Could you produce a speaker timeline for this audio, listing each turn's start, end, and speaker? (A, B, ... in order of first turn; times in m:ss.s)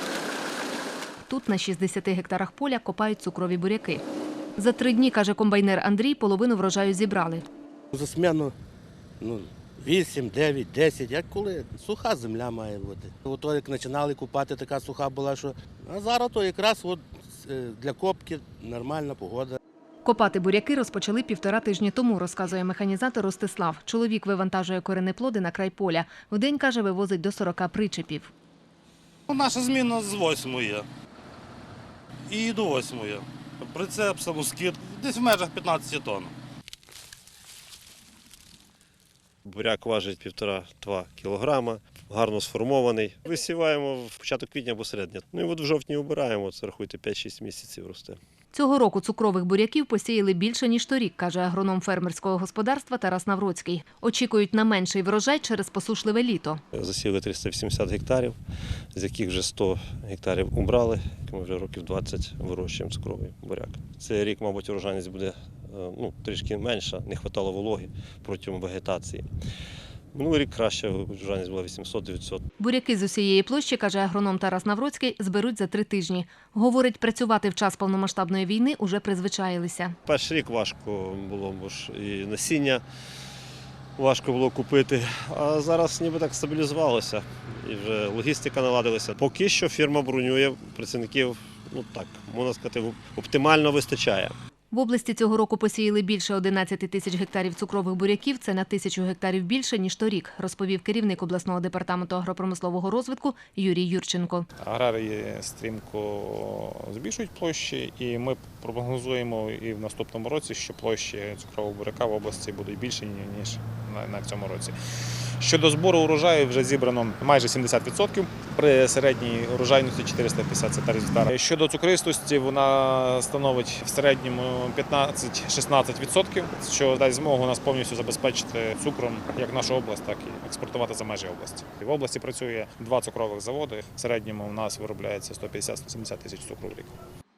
0:01.3-0:04.0 A
0:04.6-0:07.4 A
0:07.9-0:08.5 B
0:09.2-0:19.6 B
0:20.0-0:28.3 A
0:29.3-0:30.8 C
0:32.3-0:36.3 C
0:39.4-0:48.2 D
0:48.5-0:56.6 A
0:56.7-0:58.4 D
0:58.9-1:09.3 D
1:10.1-1:12.4 D
1:12.6-1:20.0 A
1:20.0-1:22.8 D
1:24.0-1:34.3 D
1:34.7-1:44.5 A
1:44.6-2:16.9 E